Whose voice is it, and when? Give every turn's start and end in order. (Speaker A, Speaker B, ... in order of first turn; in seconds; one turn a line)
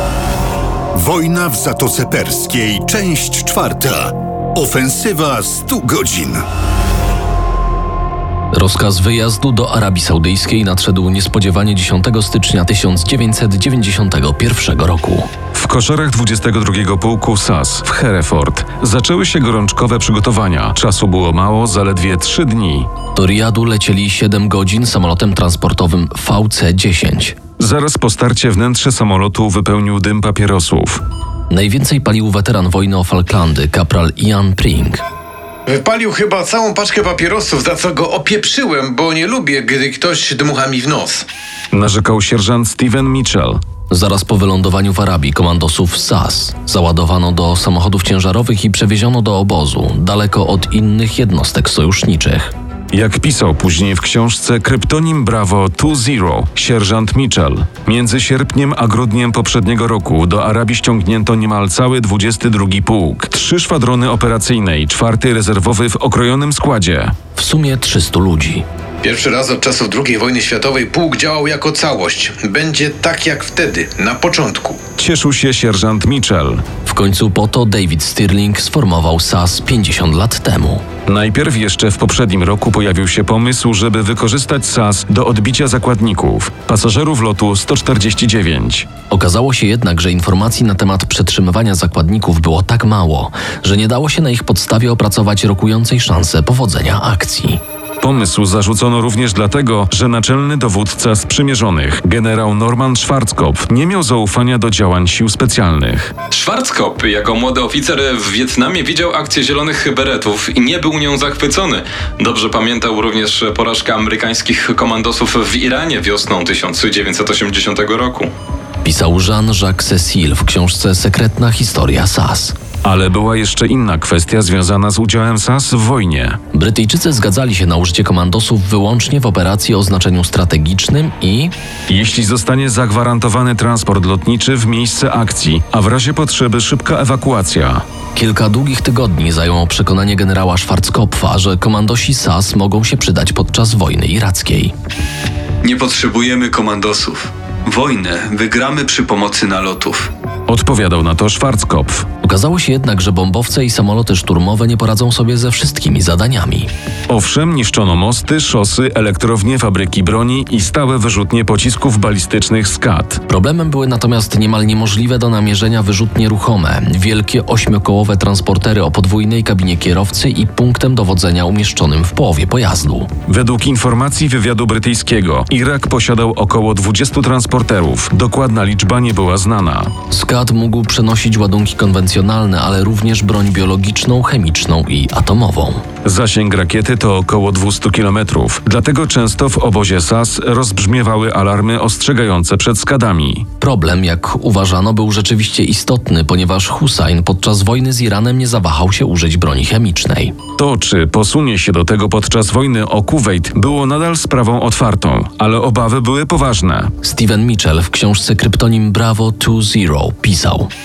Speaker A: 0.9-6.4
Speaker B: 8.5-15.3
Speaker C: 15.5-22.9
Speaker B: 23.1-27.4
Speaker C: 27.6-31.0
Speaker B: 31.5-35.0
Speaker D: 35.6-41.2
Speaker C: 41.7-43.6
Speaker B: 43.9-52.5
Speaker C: 52.9-67.1
Speaker B: 67.3-68.6
Speaker D: 69.0-74.8
Speaker C: 75.0-76.6
Speaker B: 76.8-80.8
Speaker C: 81.1-88.9
Speaker B: 89.1-97.6
Speaker C: 98.0-106.1
Speaker E: 106.3-118.3
Speaker B: 118.8-122.5
Speaker C: 122.8-126.4
Speaker B: 126.5-131.5
Speaker C: 131.9-137.8
Speaker B: 138.1-144.7
Speaker F: 145.6-150.1
Speaker C: 150.5-152.1
Speaker B: 152.2-156.7
Speaker C: 157.1-163.2
Speaker B: 163.3-173.1
Speaker C: 173.3-179.9
Speaker B: 180.1-185.8
Speaker C: 186.0-193.4
Speaker B: 193.6-200.3
Speaker C: 200.6-206.9
Speaker B: 207.0-210.7